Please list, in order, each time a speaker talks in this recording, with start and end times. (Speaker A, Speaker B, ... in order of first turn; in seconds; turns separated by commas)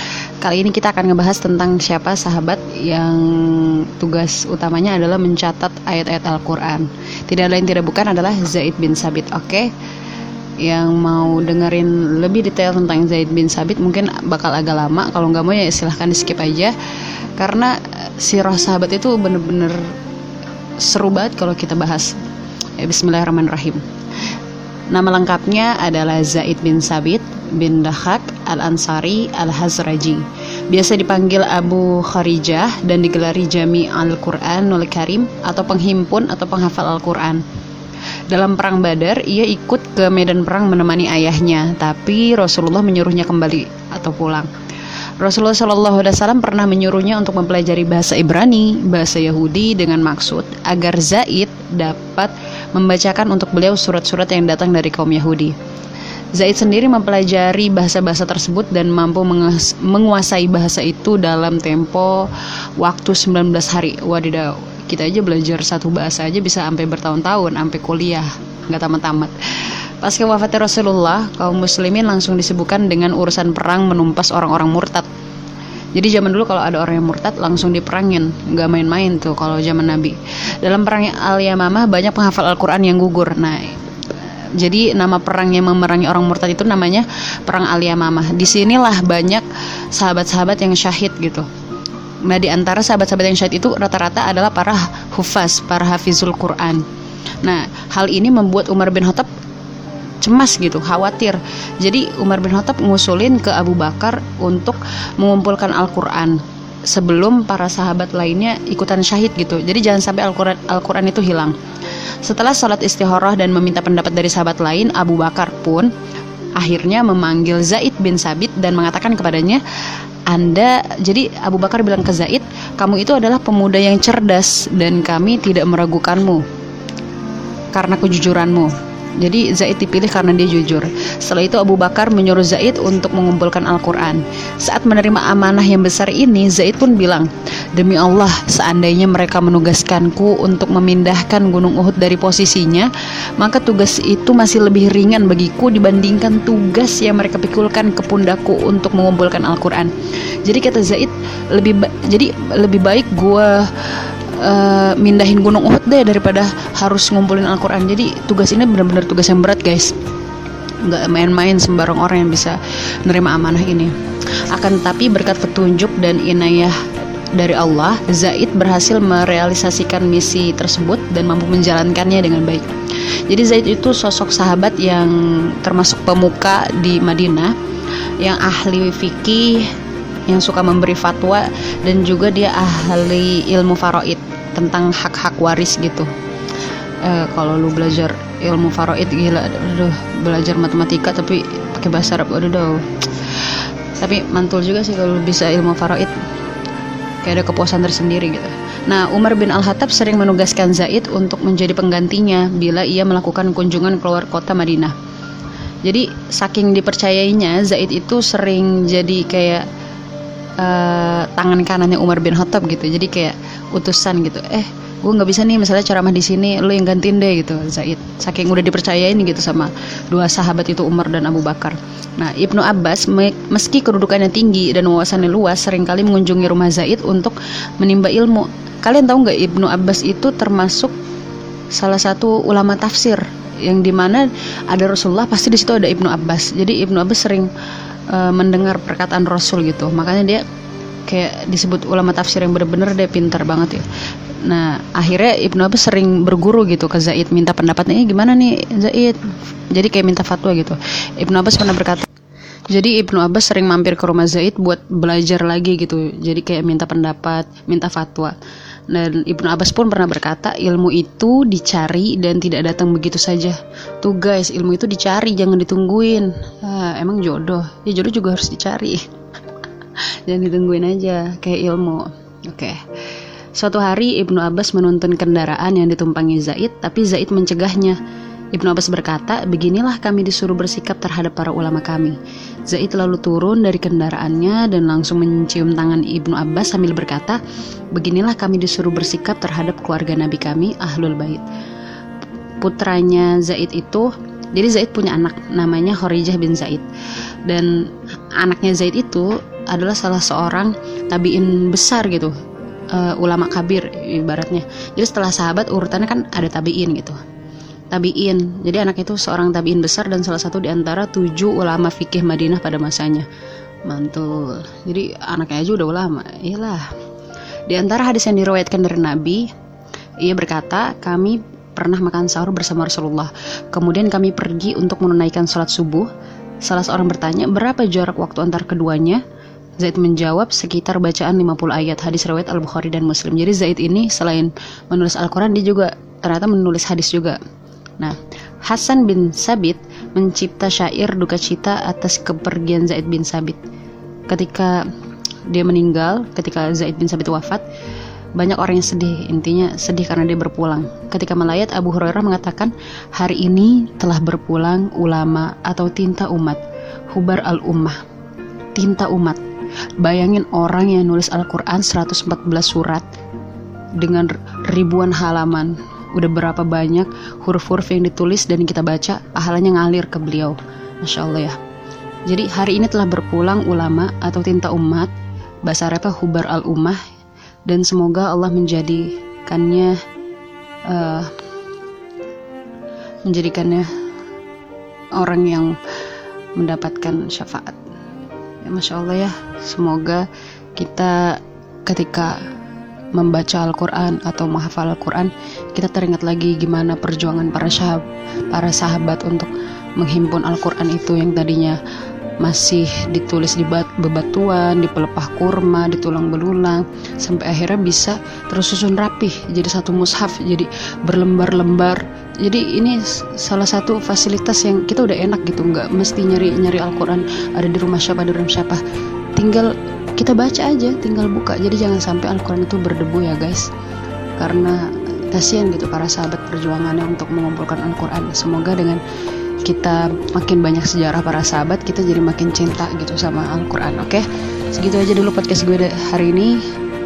Speaker A: 0.4-9.7, Speaker A: 10.6-16.8, Speaker A: 17.4-19.8, Speaker A: 20.8-22.1, Speaker A: 22.8-23.8, Speaker A: 24.9-37.4, Speaker A: 38.3-44.5, Speaker A: 45.2-55.5, Speaker A: 56.4-75.1, Speaker A: 76.0-91.5, Speaker A: 92.2-96.8, Speaker A: 97.4-99.3, Speaker A: 100.2-111.6, Speaker A: 112.2-115.9, Speaker A: 116.6-119.6, Speaker A: 120.3-126.4, Speaker A: 127.7-149.9, Speaker A: 150.4-160.0, Speaker A: 160.8-163.9, Speaker A: 164.5-166.8, Speaker A: 167.3-172.7, Speaker A: 173.3-177.5, Speaker A: 178.2-179.7, Speaker A: 180.3-186.1, Speaker A: 187.0-196.1, Speaker A: 197.2-204.9, Speaker A: 205.8-209.7, Speaker A: 210.6-230.9, Speaker A: 231.7-237.5, Speaker A: 238.1-240.4, Speaker A: 241.1-243.9, Speaker A: 244.4-249.2, Speaker A: 249.7-252.1, Speaker A: 252.7-258.4, Speaker A: 258.9-269.0, Speaker A: 270.3-272.8, Speaker A: 273.6-278.0, Speaker A: 278.6-287.4, Speaker A: 287.9-291.5, Speaker A: 292.6-296.9, Speaker A: 297.4-297.7, Speaker A: 298.3-302.3, Speaker A: 302.9-307.2, Speaker A: 307.9-313.3, Speaker A: 313.9-316.9, Speaker A: 317.7-319.5, Speaker A: 320.2-326.1, Speaker A: 326.6-329.2, Speaker A: 329.8-337.4, Speaker A: 338.0-343.6, Speaker A: 344.3-344.8, Speaker A: 345.5-347.6, Speaker A: 348.4-358.0, Speaker A: 358.8-359.4, Speaker A: 360.0-363.1, Speaker A: 364.0-371.6, Speaker A: 372.3-375.1, Speaker A: 375.6-377.0, Speaker A: 377.7-380.0, Speaker A: 380.9-381.3, Speaker A: 383.3-383.9, Speaker A: 385.2-385.8, Speaker A: 386.6-387.8, Speaker A: 388.7-392.4, Speaker A: 393.1-401.8, Speaker A: 402.4-418.8, Speaker A: 419.4-423.7, Speaker A: 424.4-429.0, Speaker A: 429.6-436.6